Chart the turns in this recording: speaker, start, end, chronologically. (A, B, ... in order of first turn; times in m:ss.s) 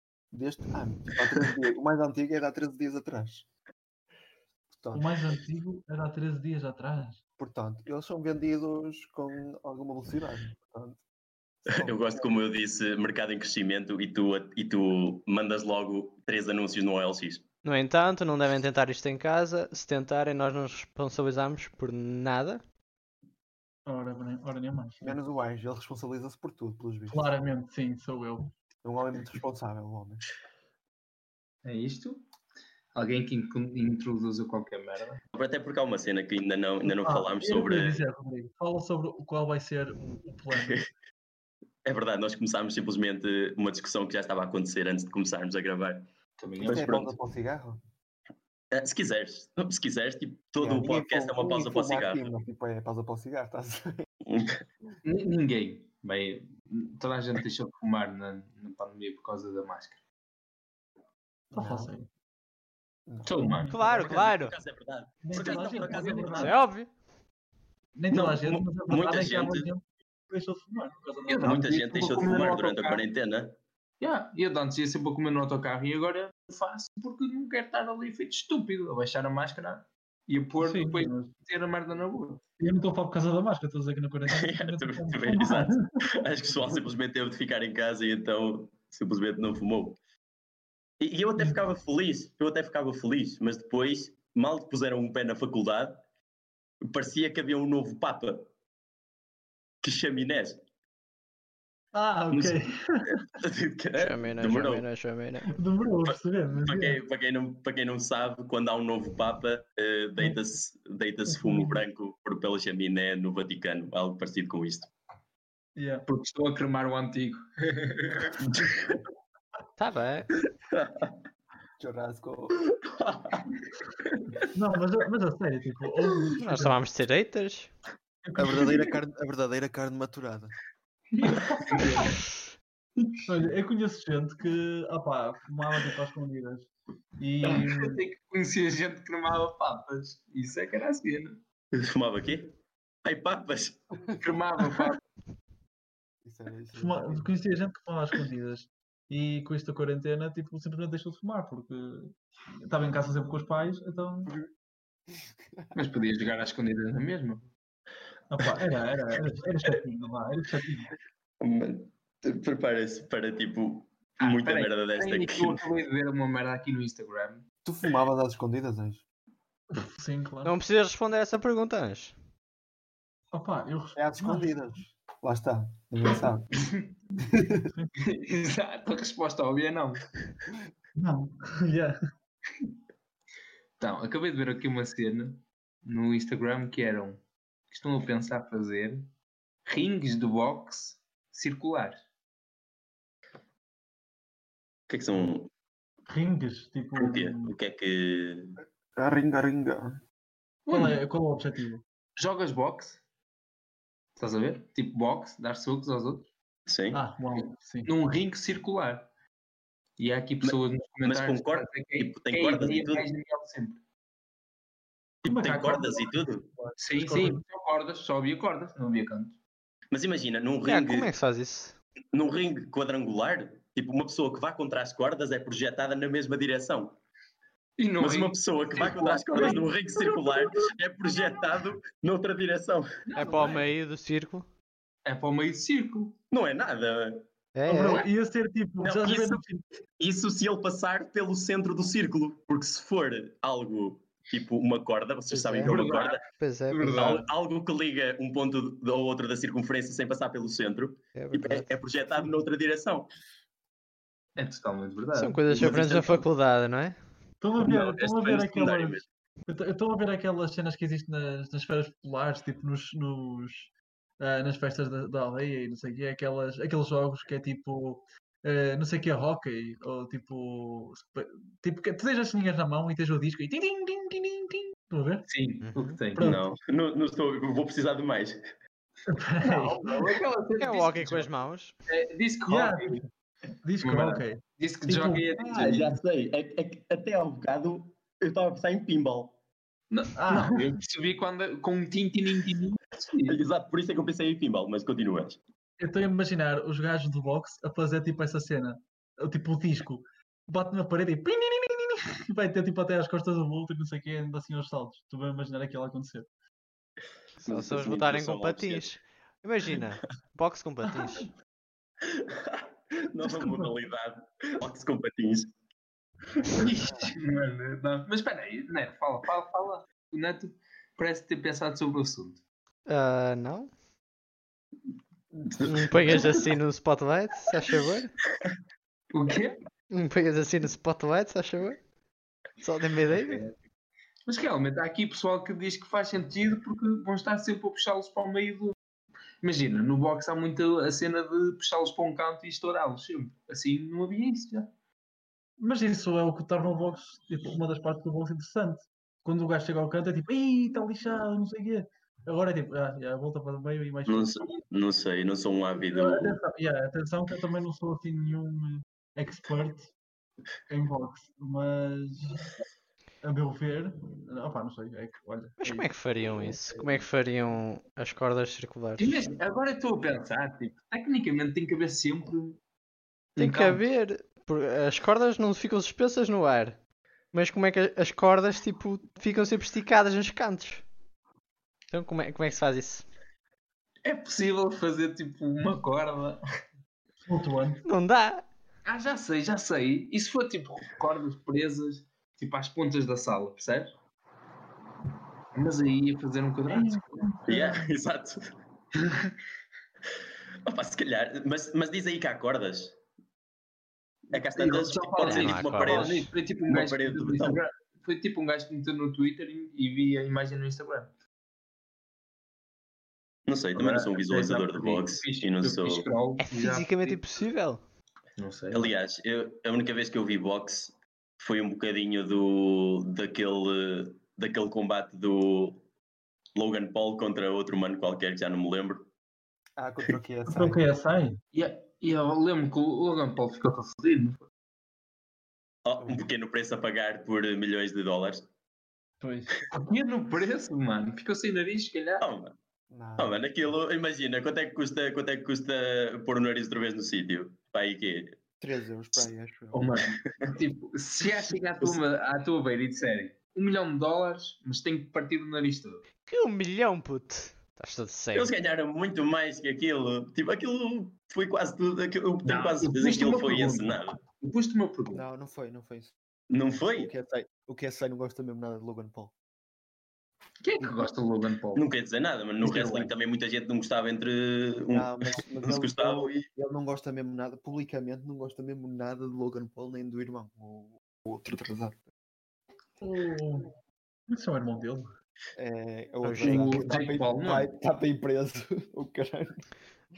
0:00.3-0:03.5 A
0:04.7-0:05.2 A
0:04.9-0:07.2 B
0:07.4-0:11.0 A
0:11.6-0:12.3 A
0:11.7-0:17.4 C
0:17.6-0:22.6 D
0:23.8-0:25.2 B
0:25.0-0:27.3 A
0:27.1-0:28.5 B
0:28.8-0:30.2 A
0:31.6-0:32.2 E
0:32.9-0:35.2 E
0:35.3-0:38.0 C
0:36.8-0:40.8 B
0:41.8-0:46.1 C
0:46.4-0:47.1 E
0:46.6-0:47.8 A
0:46.6-0:47.1 C
0:48.7-0:52.3 C
0:50.6-0:54.0 A
0:54.2-0:54.6 C
0:55.0-1:00.0 E
1:01.5-1:02.1 B
1:01.5-1:01.9 A
1:03.1-1:03.5 A
1:03.2-1:03.7 E
1:03.3-1:04.3 B
1:03.7-1:04.6 D
1:04.0-1:06.5 C
1:05.2-1:06.6 B
1:05.3-1:06.5 E
1:06.4-1:06.9 D
1:08.0-1:11.6 B
1:08.1-1:09.7 C
1:11.3-1:13.0 E
1:11.4-1:13.6 C
1:14.0-1:22.4 E
1:20.6-1:21.3 B
1:22.6-1:25.9 B
1:24.3-1:30.0 C
1:31.0-1:36.0 C
1:36.8-1:38.5 C
1:39.8-1:40.6 C
1:41.9-1:43.1 B
1:43.4-1:44.8 C
1:43.9-1:45.5 D
1:45.5-1:47.0 B
1:46.1-1:54.9 C
1:51.3-1:51.8 B
1:55.8-1:56.0 B
1:56.0-1:58.4 E
1:58.5-1:59.0 C
1:59.8-2:00.3 D
2:00.7-2:01.1 C
2:01.8-2:02.6 A
2:02.8-2:03.4 C
2:04.5-2:06.8 B
2:06.4-2:07.7 D
2:08.3-2:08.8 B
2:08.4-2:10.5 A
2:11.1-2:12.2 E
2:11.2-2:12.2 B
2:13.2-2:18.0 B
2:17.4-2:21.4 E
2:21.7-2:24.0 C
2:24.2-2:25.0 E
2:26.2-2:27.3 A
2:26.8-2:32.1 B
2:32.6-2:34.3 B
2:35.1-2:35.6 A
2:35.7-2:37.4 E
2:38.3-2:40.9 B
2:41.4-2:45.6 C
2:44.2-2:47.4 E
2:47.6-2:49.0 A
2:49.7-2:50.6 B
2:50.4-2:52.1 D
2:53.3-2:54.5 B
2:54.0-2:56.5 A
2:57.2-2:57.7 A
2:57.6-2:57.9 B
2:58.0-3:00.1 E
3:01.0-3:02.0 B
3:03.8-3:09.1 E
3:09.6-3:12.0 E
3:14.9-3:15.5 C
3:16.1-3:17.5 B
3:17.0-3:18.5 C
3:19.0-3:20.0 A
3:20.6-3:21.0 E
3:20.7-3:21.8 B
3:22.2-3:23.0 E
3:24.2-3:26.3 E
3:26.7-3:27.0 C
3:26.9-3:27.9 B
3:27.8-3:29.1 E
3:30.0-3:33.8 E
3:30.4-3:33.1 C
3:35.2-3:36.5 C
3:35.2-3:37.4 B
3:36.8-3:39.4 E
3:39.9-3:41.1 C
3:40.6-3:41.8 D
3:42.1-3:46.9 C
3:47.8-3:50.4 E
3:48.0-3:53.0 C
3:49.3-3:49.6 B
3:53.1-3:53.7 E
3:53.2-3:54.5 D
3:55.0-3:56.1 E
3:56.3-3:57.2 C
3:57.5-3:58.0 D
3:57.7-3:59.6 B
3:58.8-4:06.2 C
4:05.3-4:07.1 D
4:05.6-4:07.2 E
4:06.9-4:13.1 C
4:11.1-4:11.7 D
4:14.4-4:16.2 E
4:15.1-4:17.0 D
4:17.4-4:35.3 B
4:17.6-4:19.1 C
4:35.2-4:36.3 E
4:35.6-4:36.0 D
4:36.1-4:36.4 B
4:36.2-4:38.4 C
4:39.1-4:40.1 B
4:39.4-4:41.3 E
4:40.6-4:41.8 D
4:41.9-4:43.0 E
4:42.5-4:43.0 B
4:43.6-4:45.9 B
4:43.8-4:45.9 E
4:45.5-4:49.4 C
4:49.9-4:53.4 E
4:50.2-4:50.6 B
4:53.3-4:55.4 C
4:55.8-5:06.3 B
5:07.4-5:08.9 C
5:07.4-5:11.3 D
5:11.0-5:11.2 B
5:12.1-5:15.5 C
5:13.2-5:13.7 B
5:16.5-5:22.4 E
5:22.9-5:23.7 D
5:25.5-5:26.4 C
5:25.6-5:28.1 D
5:29.1-5:29.6 E
5:29.9-5:31.8 D
5:32.6-5:33.4 D
5:33.1-5:33.6 E
5:34.2-5:38.8 E
5:39.4-5:44.7 E
5:45.6-5:54.6 B
5:54.1-5:56.4 C
5:55.8-5:59.9 B
6:00.7-6:02.5 B
6:03.2-6:06.5 B
6:05.6-6:09.3 D
6:09.0-6:12.6 E
6:13.4-6:13.8 E
6:13.4-6:16.8 D
6:17.3-6:20.8 D
6:21.9-6:23.0 D
6:24.0-6:26.4 E
6:27.2-6:27.8 B
6:27.8-6:28.4 D
6:28.8-6:33.9 E
6:35.5-6:37.4 E
6:36.7-6:37.9 B
6:37.5-6:38.5 C
6:40.6-6:43.0 C
6:44.3-6:47.6 C
6:44.3-6:51.1 E
6:45.2-6:46.3 D
6:53.5-6:56.1 C
6:53.7-6:57.2 E
6:56.4-6:57.8 D
6:58.4-6:58.9 E
6:58.7-7:05.8 C
7:06.5-7:09.1 C
7:09.8-7:10.8 A
7:10.5-7:11.4 B
7:11.5-7:14.5 E
7:15.8-7:18.5 C
7:19.2-7:19.6 B
7:19.7-7:22.2 E
7:22.2-7:22.5 C
7:22.9-7:23.4 A
7:23.2-7:28.4 C
7:28.6-7:29.8 A
7:29.7-7:36.0 E
7:36.2-7:38.5 D
7:38.3-7:44.2 C
7:42.4-7:45.2 E
7:45.1-7:46.2 A
7:46.5-7:47.1 C
7:46.9-7:49.3 A
7:50.6-7:51.8 E
7:51.7-7:56.3 C
7:52.6-7:53.1 E
7:54.9-8:02.0 A
8:03.0-8:03.7 B
8:04.3-8:05.1 B
8:05.6-8:09.7 A
8:06.2-8:06.8 D
8:06.4-8:07.7 E